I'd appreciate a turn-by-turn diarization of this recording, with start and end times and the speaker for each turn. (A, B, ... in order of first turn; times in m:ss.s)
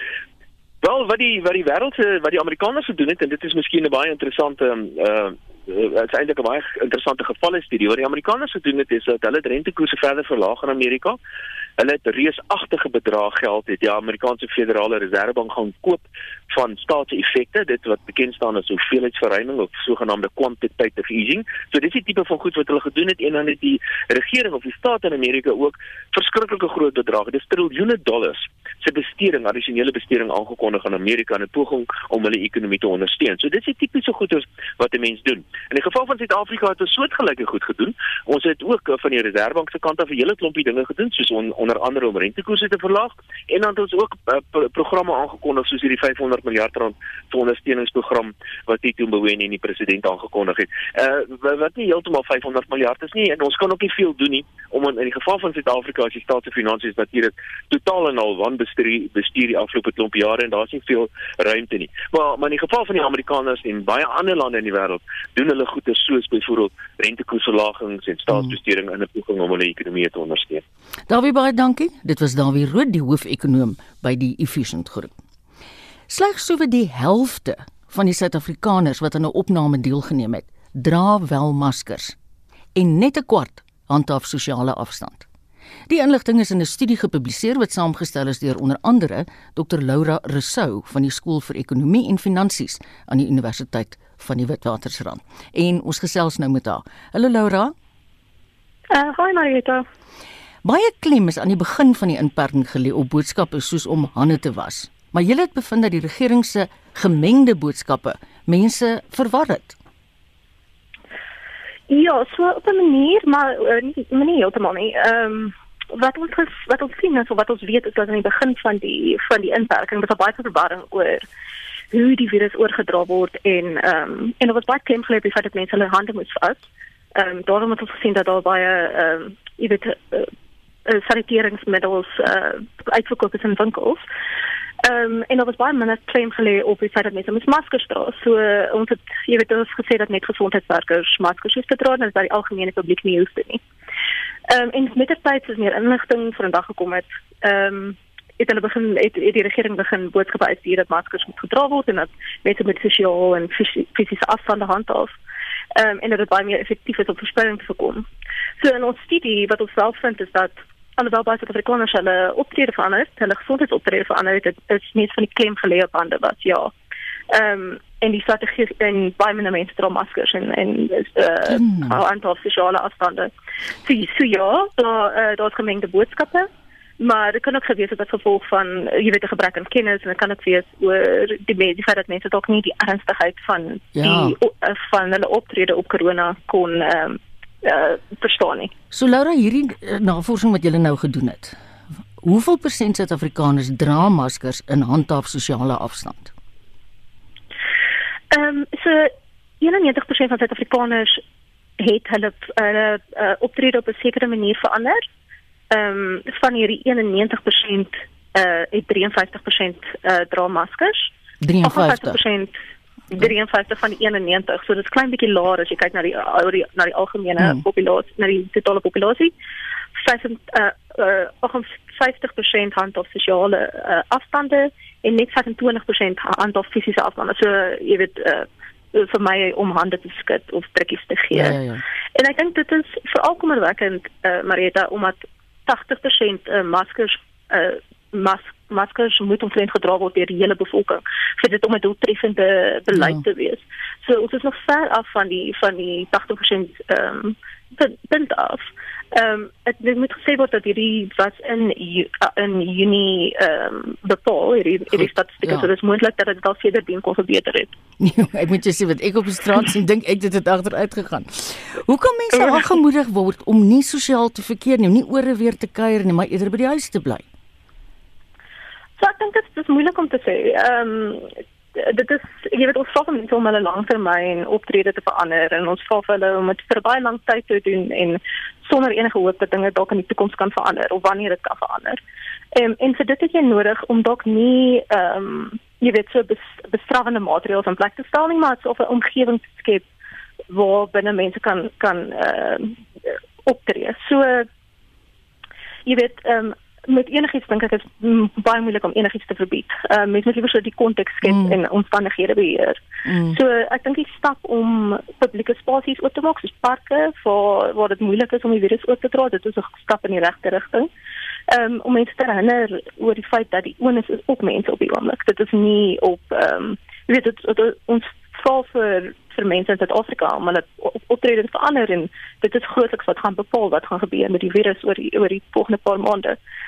0:00.8-0:11.2 A
0:11.8-1:10.6 A
1:11.1-1:15.1 B
1:16.1-1:22.2 B
1:22.8-1:25.3 B
1:25.9-1:37.7 B
1:38.9-1:39.8 C
1:40.6-1:49.8 B
1:51.9-2:01.2 C
2:01.9-2:10.3 C
2:10.9-2:14.0 C
2:14.8-2:23.6 C
2:24.5-2:35.2 C
2:35.8-2:38.1 C
2:38.6-2:46.7 C
2:47.3-2:53.3 C
2:51.5-2:52.0 B
2:53.8-2:56.5 C
2:57.0-3:08.7 C
3:04.0-3:04.4 B
3:08.9-3:11.6 B
3:12.2-3:16.3 B
3:18.3-3:21.2 C
3:21.8-3:25.0 C
3:25.7-3:31.1 C
3:31.4-3:32.2 B
3:31.6-3:32.5 C
3:33.1-3:39.3 C
3:37.4-3:37.6 B
3:40.0-3:51.6 C
3:51.3-3:51.8 B
3:52.2-4:17.7 C
4:02.9-4:03.2 B
4:14.9-4:15.7 B
4:18.0-4:27.2 B
4:22.4-4:22.7 C
4:29.0-4:42.0 C
4:42.5-4:49.8 C
4:50.5-4:54.5 C
4:55.9-5:10.9 C
5:01.2-5:01.6 B
5:03.1-5:03.4 B
5:11.5-5:26.4 C